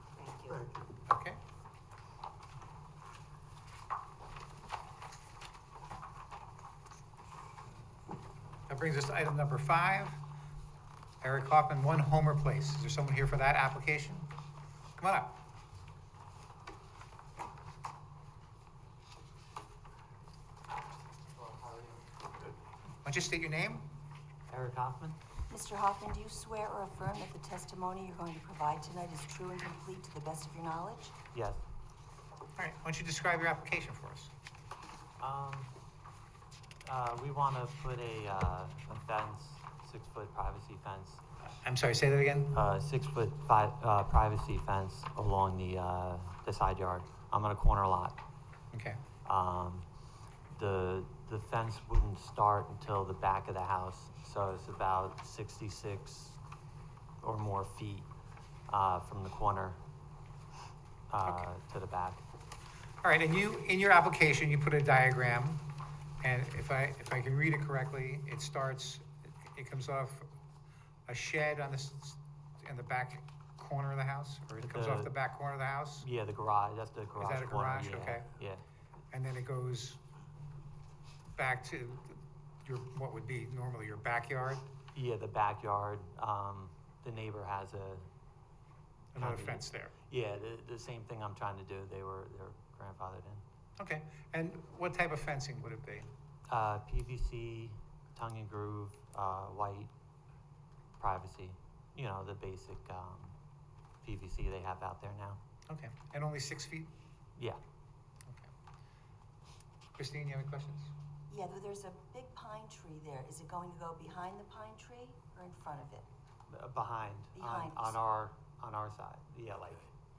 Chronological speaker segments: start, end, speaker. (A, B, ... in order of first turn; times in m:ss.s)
0:00.2-0:00.6 A
0:01.1-0:01.4 B
0:08.7-0:10.2 B
0:11.2-0:14.3 B
0:15.0-0:15.4 B
0:21.4-0:22.0 C
0:23.0-0:23.9 B
0:24.5-0:25.2 C
0:25.5-0:31.2 A
0:31.3-0:31.6 C
0:32.6-0:34.3 B
0:35.2-0:35.7 C
0:36.8-0:41.2 C
0:41.6-0:42.6 B
0:42.5-0:48.2 C
0:48.7-0:49.0 B
0:49.3-0:49.8 C
0:50.5-0:56.4 C
0:57.2-0:58.1 C
0:58.7-0:59.8 C
1:01.1-1:02.2 C
1:03.0-1:05.7 B
1:06.2-1:10.3 B
1:11.1-1:16.1 B
1:14.6-1:15.1 C
1:16.0-1:18.6 C
1:17.2-1:18.3 B
1:19.1-1:20.0 B
1:21.4-1:24.7 B
1:25.0-1:28.1 C
1:29.1-1:29.9 B
1:29.2-1:33.4 C
1:33.8-1:36.1 B
1:36.5-1:39.9 C
1:41.0-1:43.4 C
1:44.0-1:45.4 C
1:45.7-1:46.9 B
1:50.0-1:50.9 B
1:51.3-1:56.1 A
1:56.5-1:59.9 C
1:57.4-1:58.0 A